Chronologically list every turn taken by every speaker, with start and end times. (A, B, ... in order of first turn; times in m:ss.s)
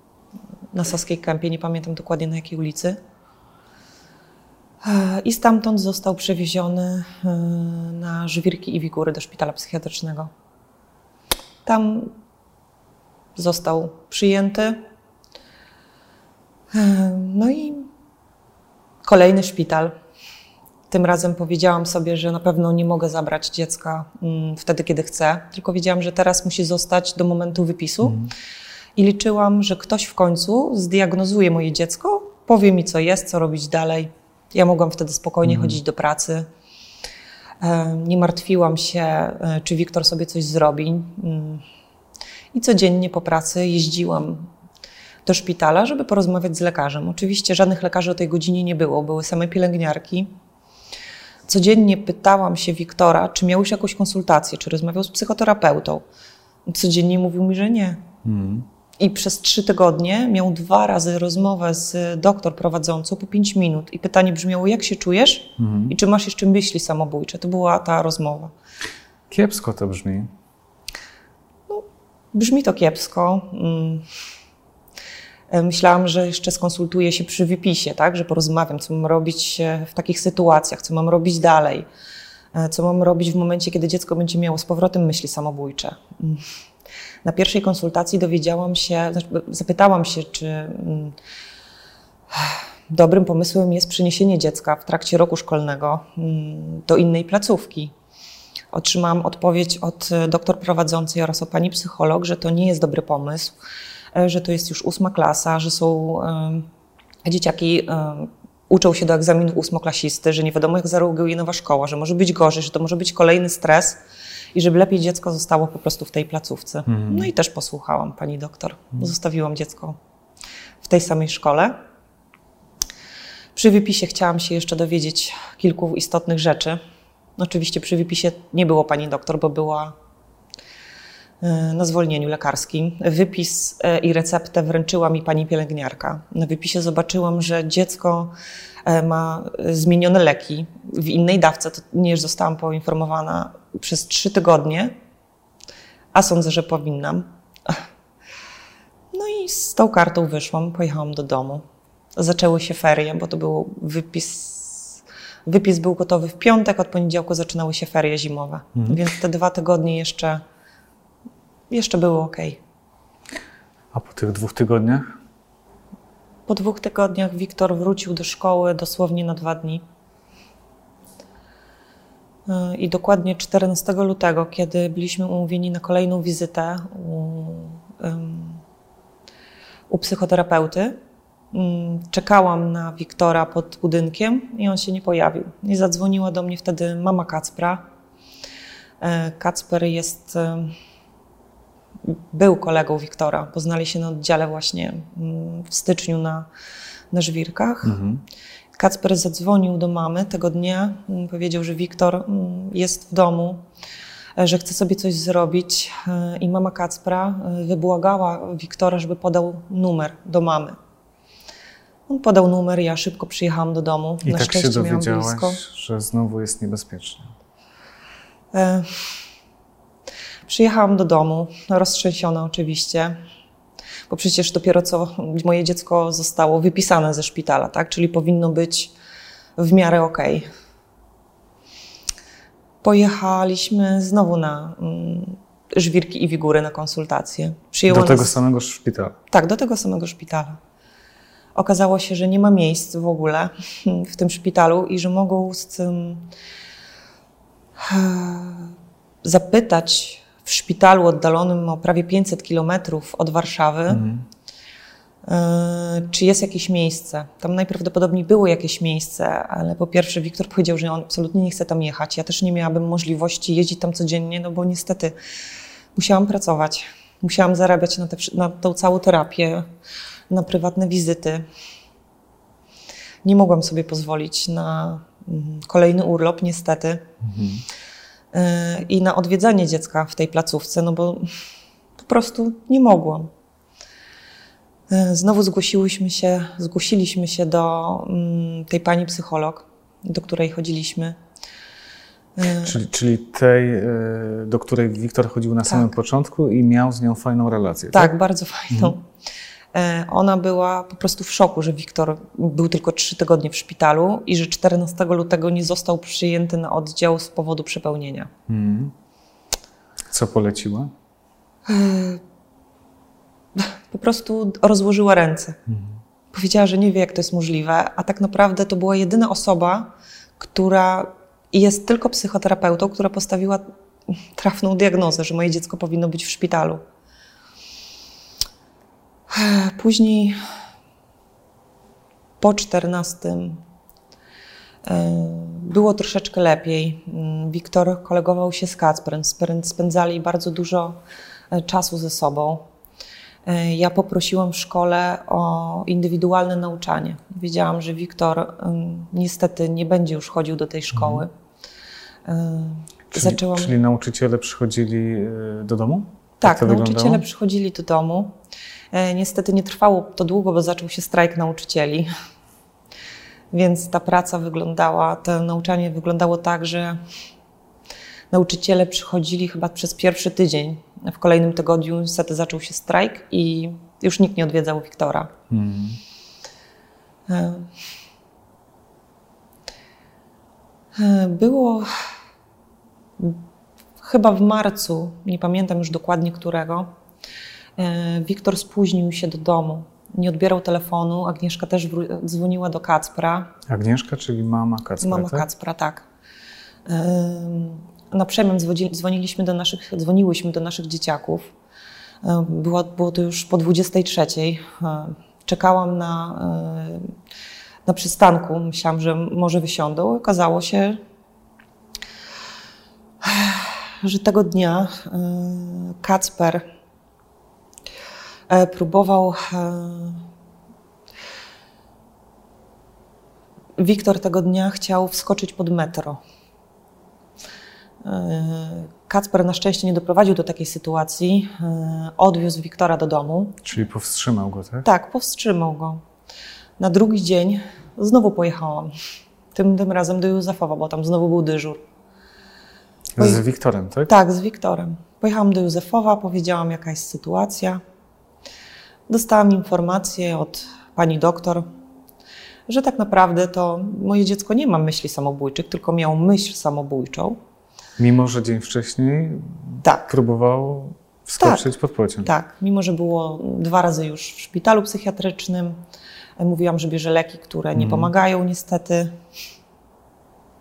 0:00.7-0:03.0 A
0:04.8-0:10.3 A
0:11.6-0:12.1 A
0:13.4-0:14.8 A
0:16.7-0:17.9 A
0:19.0-0:19.9 A
0:20.9-0:28.2 A
0:28.0-0:28.3 B
0:29.0-0:36.5 A
0:35.4-0:35.8 B
0:37.6-0:41.6 A
0:42.5-0:44.5 A
0:45.2-0:50.3 A
0:51.5-0:56.0 A
0:56.6-0:58.0 A
0:58.2-0:58.6 B
0:59.0-1:08.5 A
1:05.6-1:05.9 B
1:09.3-1:10.3 B
1:11.7-1:14.0 A
1:15.5-1:21.8 A
1:22.5-1:26.4 A
1:27.2-1:31.2 A
1:32.3-1:37.9 A
1:38.7-1:43.5 A
1:44.1-1:46.7 A
1:47.2-1:54.0 A
1:54.5-2:00.0 A
1:56.9-1:57.3 B
2:00.8-2:01.8 A
2:03.5-2:06.8 A
2:07.4-2:09.9 A
2:11.4-2:18.3 A
2:18.8-2:24.9 A
2:26.1-2:27.8 A
2:29.1-2:31.6 A
2:32.2-2:40.4 A
2:38.8-2:39.0 B
2:41.7-2:42.6 A
2:43.9-2:45.2 B
2:46.5-2:49.8 A
2:52.5-2:58.6 A
2:59.9-3:01.0 A
3:01.5-3:07.8 A
3:09.0-3:10.7 A
3:12.0-3:16.5 A
3:17.1-3:18.0 A
3:17.8-3:18.2 B
3:18.8-3:23.6 A
3:24.4-3:30.8 A
3:32.1-3:35.6 A
3:34.2-3:37.3 B
3:38.5-3:39.1 A
3:40.5-3:43.2 A
3:44.1-3:48.9 A
3:49.6-3:50.4 A
3:52.8-3:58.3 A
3:57.9-3:59.2 B
3:59.3-4:00.6 A
4:01.5-4:06.3 A
4:07.8-4:14.0 A
4:13.9-4:14.2 B
4:15.2-4:25.1 A
4:26.0-4:29.6 A
4:30.3-4:31.4 A
4:33.2-4:37.1 A
4:37.2-4:37.6 B
4:38.3-4:41.3 A
4:42.0-4:43.3 A
4:44.9-4:51.2 A
4:52.4-4:52.7 A
4:52.6-4:58.1 B
4:57.9-4:59.0 A
4:59.7-5:08.3 A
5:08.5-5:08.9 B
5:10.1-5:10.9 B
5:11.7-5:12.2 A
5:13.6-5:15.6 A
5:15.7-5:16.0 B
5:16.3-5:26.8 A
5:29.3-5:30.4 A
5:32.4-5:33.6 A
5:34.8-5:41.0 A
5:41.5-5:42.7 A
5:43.4-5:51.3 A
5:50.9-5:51.2 B
5:52.2-5:53.7 A
5:53.1-5:57.2 B
5:56.4-5:58.3 A
5:58.9-6:02.1 A
6:03.5-6:07.0 A
6:08.3-6:15.3 A
6:15.5-6:16.0 B
6:17.3-6:17.7 A
6:20.9-6:22.0 A
6:24.0-6:26.9 A
6:27.8-6:33.5 A
6:33.7-6:35.4 B
6:35.0-6:36.0 A
6:36.8-6:41.5 A
6:42.2-6:47.1 A
6:47.8-6:51.0 A
6:53.2-6:56.7 A
6:58.5-7:00.2 A
7:03.8-7:06.2 A
7:08.0-7:13.6 A
7:13.6-7:14.9 B
7:14.8-7:16.0 A
7:16.8-7:18.9 A
7:19.5-7:21.8 A
7:23.2-7:24.1 B
7:24.1-7:27.8 A
7:29.1-7:31.6 A
7:32.7-7:37.4 A
7:38.0-7:42.3 B
7:39.8-7:40.1 A
7:41.4-7:41.7 A
7:42.2-7:45.8 A
7:46.4-7:49.2 A
7:47.8-7:48.1 B